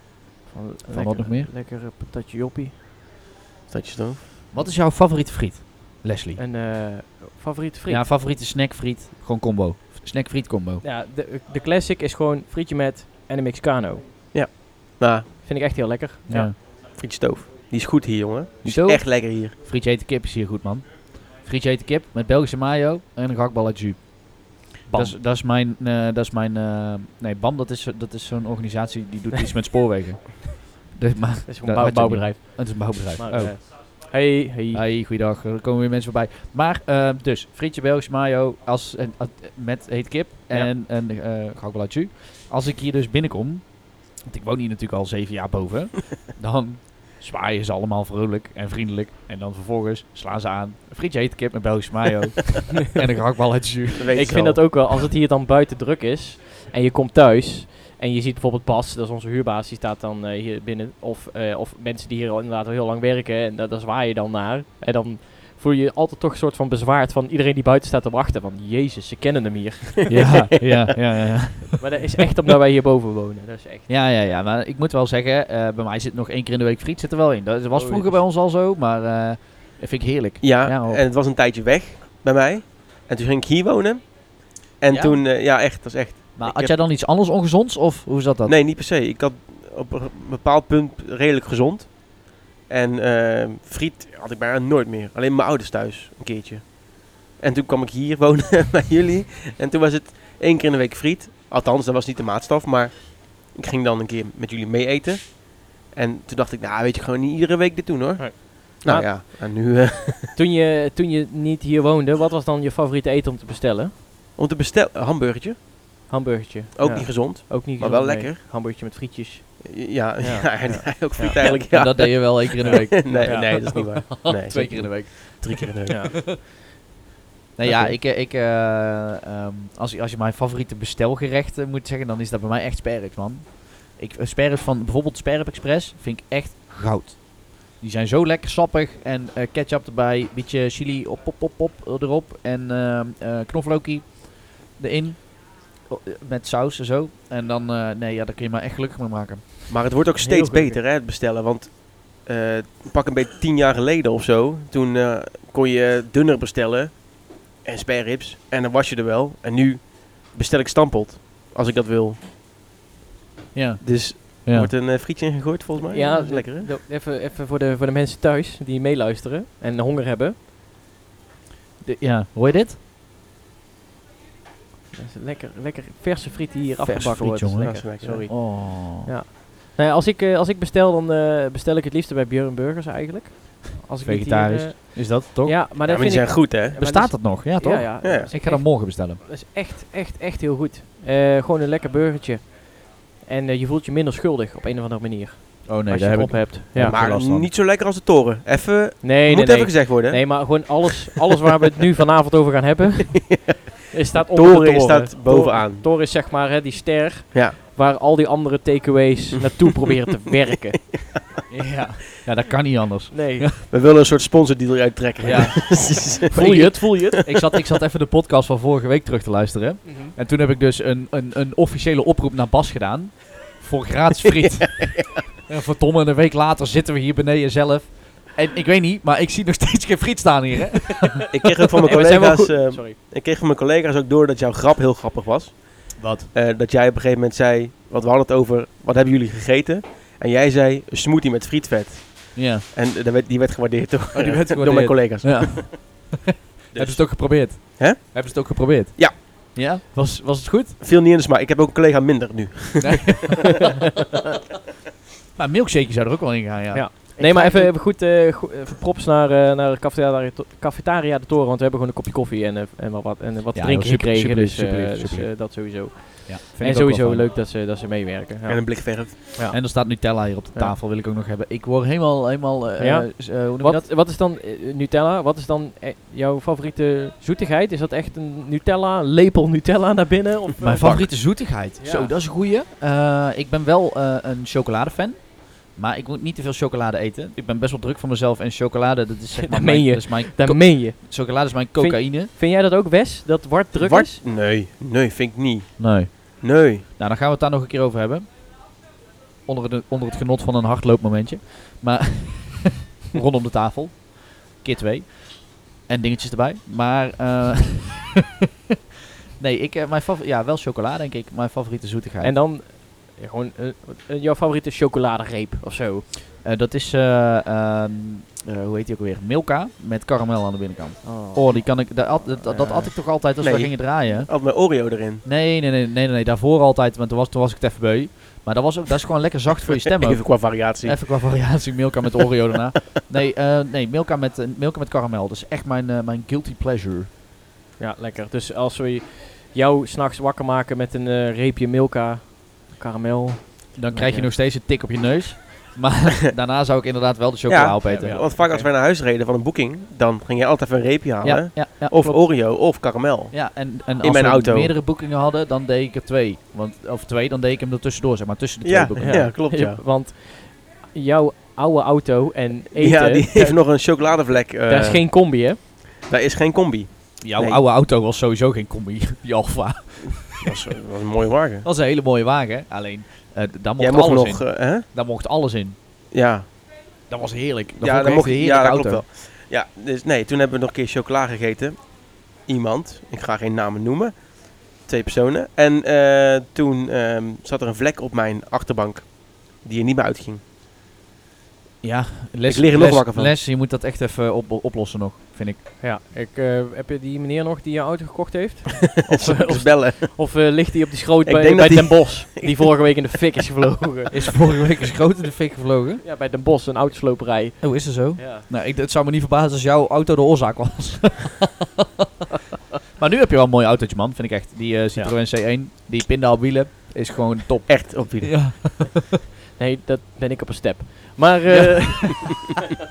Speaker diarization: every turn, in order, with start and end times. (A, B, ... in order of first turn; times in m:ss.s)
0:00.5-0:02.8 A
0:00.9-0:01.5 B
0:03.7-0:04.2 C
0:04.5-0:06.4 B
0:06.4-0:08.0 A
0:07.9-0:10.8 B
0:10.8-0:14.1 A
0:14.3-0:15.3 C
0:15.4-0:16.6 A
0:16.3-0:16.6 B
0:16.6-0:19.5 C
0:18.6-0:33.6 B
0:24.9-0:25.2 A
0:31.4-0:34.8 A
0:34.7-0:54.4 B
0:54.0-0:54.7 C
0:54.1-1:10.5 A
1:10.1-1:11.8 B
1:11.8-1:13.9 A
1:13.9-1:21.0 B
1:17.7-1:18.2 A
1:20.4-1:26.8 C
1:24.9-1:25.2 B
1:26.4-1:28.6 B
1:28.4-1:50.3 C
1:48.2-1:49.2 A
1:50.3-1:53.9 A
1:54.4-1:55.6 C
1:56.1-2:01.6 A
1:56.8-1:58.4 C
1:59.6-2:06.2 C
2:01.4-2:05.9 B
2:03.2-2:03.9 A
2:05.9-2:06.3 A
2:07.6-2:29.7 B
2:07.6-2:08.0 A
2:29.7-2:42.2 C
2:30.2-2:30.8 A
2:43.5-2:44.7 B
2:43.8-2:46.7 C
2:45.8-2:50.4 A
2:51.8-2:52.8 B
2:54.9-3:17.0 A
2:56.8-2:59.1 B
2:57.6-2:58.3 C
3:04.0-3:05.6 B
3:05.8-3:06.8 C
3:06.7-3:09.2 B
3:08.0-3:08.3 C
3:15.6-3:17.5 B
3:16.8-3:20.8 C
3:19.0-3:31.1 A
3:24.1-3:25.9 C
3:30.9-3:31.2 C
3:31.5-3:33.6 B
3:33.1-3:33.5 A
3:33.6-3:37.0 C
3:35.2-3:51.2 B
3:36.3-3:37.2 A
3:39.8-3:40.1 A
3:44.4-3:45.2 C
3:51.3-4:05.8 C
3:51.8-3:53.0 A
3:56.0-3:56.3 B
4:02.3-4:02.6 B
4:04.1-4:06.2 B
4:06.7-4:09.2 C
4:06.7-4:10.8 B
4:10.8-4:13.4 C
4:12.8-4:13.6 B
4:15.4-4:17.7 B
4:16.7-4:30.8 A
4:23.5-4:27.3 B
4:28.5-4:29.2 C
4:29.5-4:33.9 B
4:32.8-4:42.1 A
4:40.6-4:52.3 B
4:49.4-4:54.2 A
4:53.8-4:56.8 C
4:55.8-4:58.3 B
4:59.4-5:08.1 B
5:09.4-5:12.4 B
5:12.2-5:16.0 A
5:16.4-5:37.1 B
5:21.0-5:23.0 A
5:23.4-5:25.2 C
5:30.0-5:31.6 C
5:37.8-5:44.3 A
5:43.8-5:48.2 B
5:47.5-5:54.7 C
5:47.8-5:48.7 A
5:51.2-5:52.2 B
5:53.3-5:59.3 B
5:58.6-5:59.8 C
5:59.0-6:03.6 A
6:02.7-6:07.6 C
6:04.6-6:05.6 A
6:07.2-6:10.5 B
6:10.2-6:11.6 C
6:11.6-6:15.8 B
6:13.8-6:14.8 C
6:16.1-6:16.5 C
6:17.1-6:19.0 B
6:17.8-6:30.4 C
6:31.8-6:35.6 B
6:32.5-6:33.3 C
6:35.8-6:44.3 A
6:39.1-6:40.2 C
6:41.2-6:42.6 C
6:44.1-6:46.0 B
6:46.0-6:48.5 A
6:47.6-6:51.5 B
6:53.0-6:59.1 B
6:57.7-6:58.8 C
6:59.6-7:02.3 A
7:01.5-7:02.3 B